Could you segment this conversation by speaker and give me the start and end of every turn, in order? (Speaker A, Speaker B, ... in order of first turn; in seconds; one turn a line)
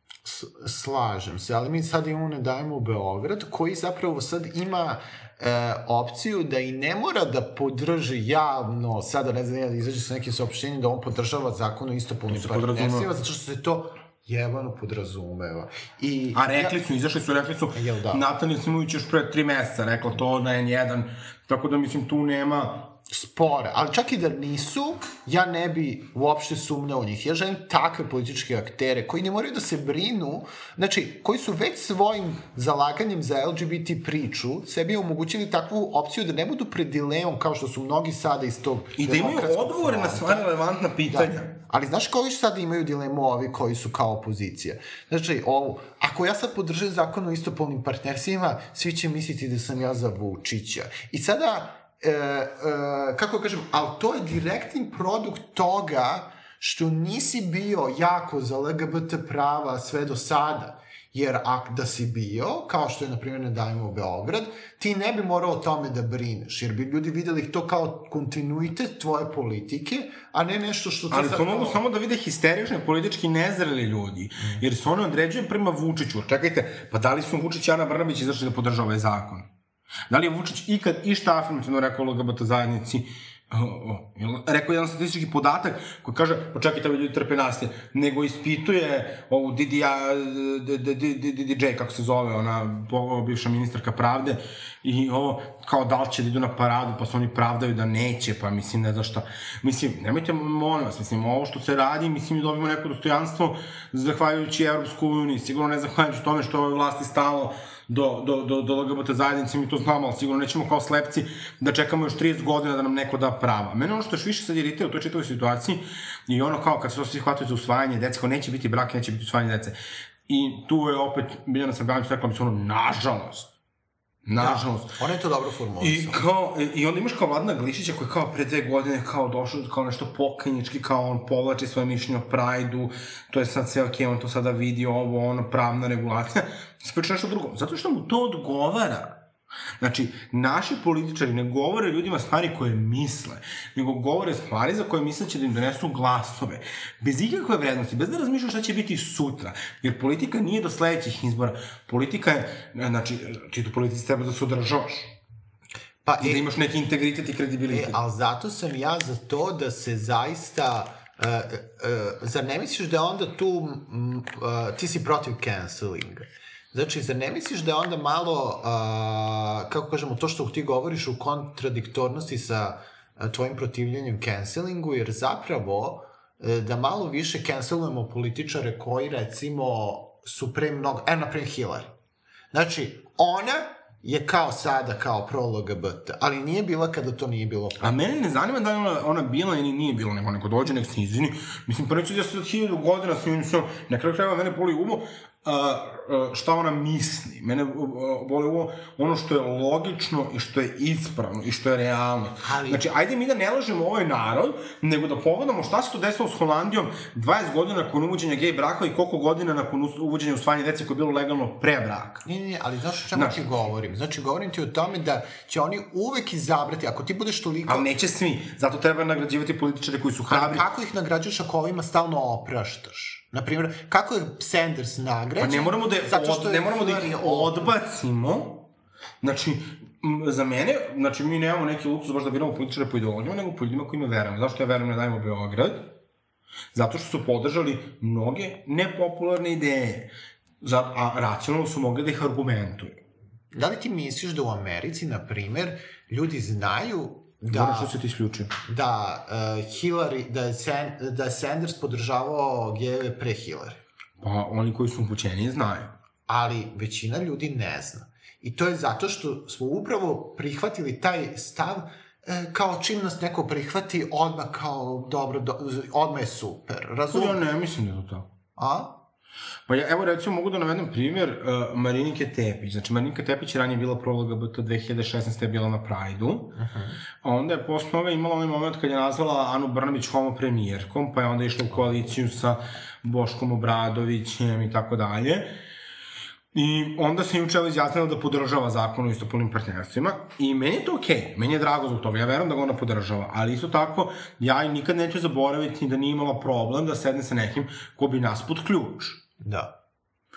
Speaker A: 0.2-16.8
Speaker B: 12.3-13.1
Speaker B: 16.3-22.9
Speaker A: 17.7-18.2
Speaker A: 23.1-40.5
Speaker B: 39.0-41.5
Speaker A: 41.1-71.8
Speaker B: 71.1-79.5
Speaker A: 74.4-74.6
Speaker B: 80.1-119.8
Speaker B: 120.3-123.5
Speaker B: 124.3-125.0
Speaker A: 124.4-126.2
Speaker B: 125.8-139.2
Speaker B: 139.8-155.2
Speaker A: 156.1-156.5
Speaker B: 156.2-158.0
Speaker A: 157.7-181.9
Speaker A: 182.5-188.0
Speaker B: 187.8-212.2
Speaker A: 202.4-202.9
Speaker A: 212.2-217.9
Speaker B: 213.1-213.4
Speaker B: 217.7-220.7
Speaker A: 220.3-227.6
Speaker B: 225.4-228.7
Speaker B: 229.2-235.9
Speaker B: 236.7-243.0
Speaker A: 243.5-247.9
Speaker B: 247.5-248.5
Speaker A: 248.6-253.8
Speaker B: 254.2-255.9
Speaker A: 256.3-267.4
Speaker B: 267.1-268.3
Speaker A: 268.6-269.0
Speaker B: 269.7-276.5
Speaker A: 276.6-277.0
Speaker B: 277.2-285.5
Speaker B: 286.5-299.2
Speaker A: 299.4-299.7